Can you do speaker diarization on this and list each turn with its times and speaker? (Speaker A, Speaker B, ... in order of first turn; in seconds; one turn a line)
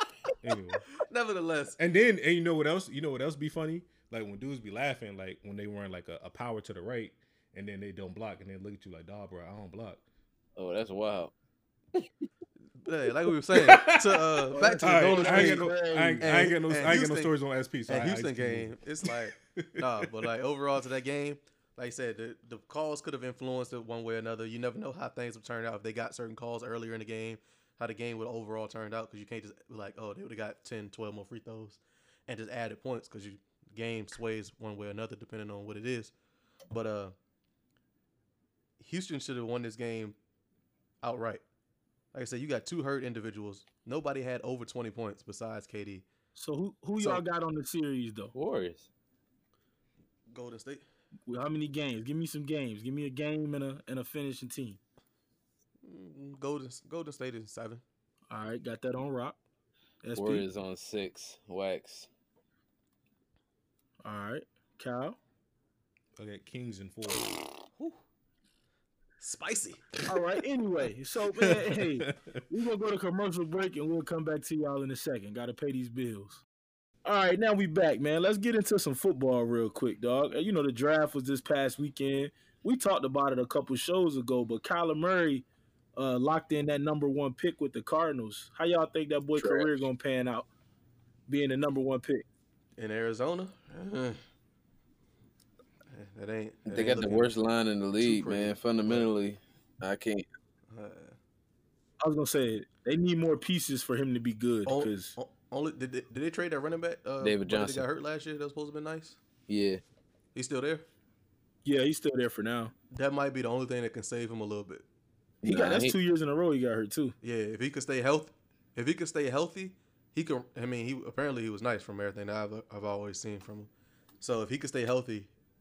Speaker A: 0.4-0.9
Speaker B: 0.9-1.8
Speaker A: 1.8-10.0
Speaker C: 10.6-11.3
Speaker B: 12.8-17.3
Speaker A: 13.5-20.1
Speaker D: 14.5-16.4
Speaker B: 17.9-36.1
Speaker B: 36.7-37.1
Speaker B: 38.8-40.2
Speaker B: 41.0-41.4
Speaker B: 42.1-46.1
Speaker D: 46.3-48.3
Speaker C: 48.3-48.9
Speaker B: 50.3-50.8
Speaker D: 51.3-54.8
Speaker B: 55.8-57.8
Speaker D: 58.3-59.4
Speaker D: 60.0-60.4
Speaker C: 60.2-62.1
Speaker D: 64.0-65.2
Speaker A: 66.2-67.4
Speaker B: 69.2-69.9
Speaker D: 70.0-76.4
Speaker A: 71.4-72.4
Speaker D: 77.0-90.5
Speaker C: 89.4-89.7
Speaker D: 91.3-92.2
Speaker B: 92.8-94.2
Speaker B: 95.9-97.3
Speaker C: 96.7-100.3
Speaker B: 98.0-99.1
Speaker B: 100.7-101.2
Speaker D: 102.0-105.2
Speaker B: 104.7-109.2
Speaker C: 107.2-107.8
Speaker C: 109.5-109.8
Speaker B: 110.3-110.8
Speaker D: 111.6-112.7
Speaker B: 112.9-114.8
Speaker C: 115.4-115.9
Speaker D: 115.4-117.2
Speaker B: 117.2-125.3